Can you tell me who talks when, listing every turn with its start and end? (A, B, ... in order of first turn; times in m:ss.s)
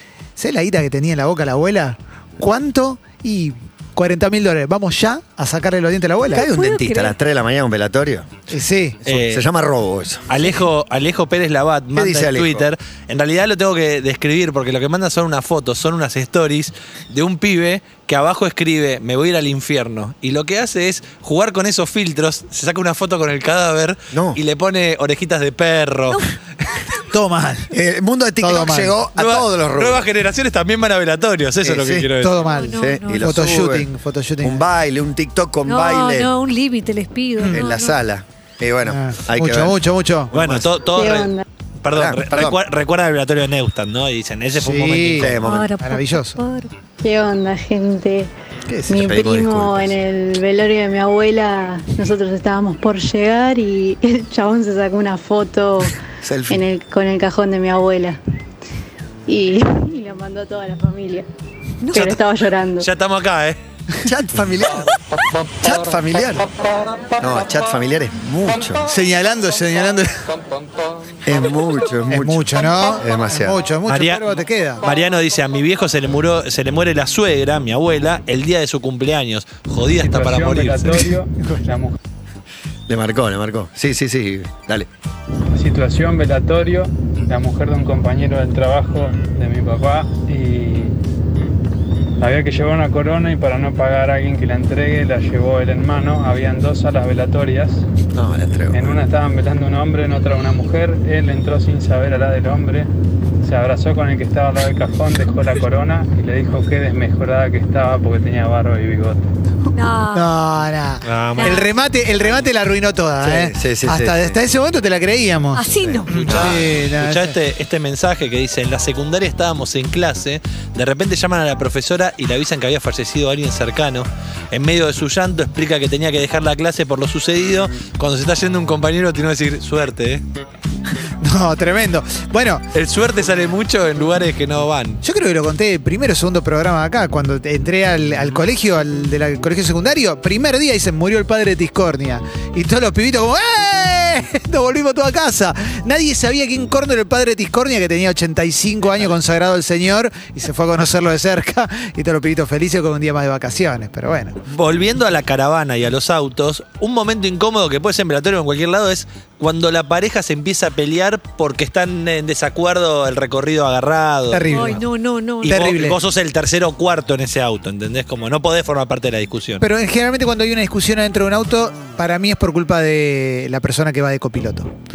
0:00.4-0:06.5 A
0:06.3-0:08.3 B
0:06.3-0:07.2 C
0:08.5-0:09.0 A
0:09.0-0:10.3 B
0:09.1-0:09.4 D
0:10.3-0:26.3 D
0:11.9-0:12.7 B
0:24.1-0:24.4 B
0:27.1-0:27.7 A
0:27.7-0:30.1 B
0:28.4-0:28.9 A
0:29.2-0:32.4 D
0:31.6-0:32.1 B
0:32.2-0:34.6 A
0:32.4-0:33.3 C
0:32.7-0:33.9 B
0:34.4-0:36.3 B
0:35.6-0:38.0 C
0:37.4-0:39.8 B
0:38.9-0:40.3 A
0:40.3-0:40.7 B
0:40.3-0:45.4 D
0:40.8-0:41.4 E
0:41.9-0:42.6 B
0:44.5-0:46.4 A
0:45.2-0:45.7 B
0:45.4-0:46.7 C
0:47.0-0:48.3 E
0:48.7-0:50.0 B
0:48.9-0:58.2 E
0:56.2-0:56.6 B
0:59.3-1:01.3 E
1:01.8-1:02.2 C
1:01.9-1:02.9 E
1:02.8-1:03.6 D
1:04.0-1:04.9 B
1:05.6-1:06.5 B
1:07.2-1:08.9 B
1:08.9-1:10.2 A
1:11.2-1:13.6 B
1:12.1-1:14.8 A
1:13.9-1:21.1 D
1:20.0-1:22.0 F
1:22.9-1:24.9 B
1:25.5-1:31.0 F
1:32.2-1:37.9 F
1:38.1-1:39.0 B
1:38.7-1:42.9 F
1:43.4-1:49.2 F
1:49.7-1:50.3 C
1:50.1-1:57.4 A
1:51.0-1:51.6 D
1:51.4-1:51.8 C
1:53.2-1:54.4 B
1:55.6-1:56.1 C
1:56.1-2:10.2 D
1:56.3-1:56.6 B
2:11.2-2:12.6 A
2:12.7-2:15.0 D
2:15.0-2:34.4 A
2:34.5-2:44.8 D
2:44.3-2:44.8 A
2:44.5-2:45.7 C
2:45.4-2:49.6 D
2:45.4-2:46.0 A
2:49.6-2:54.7 A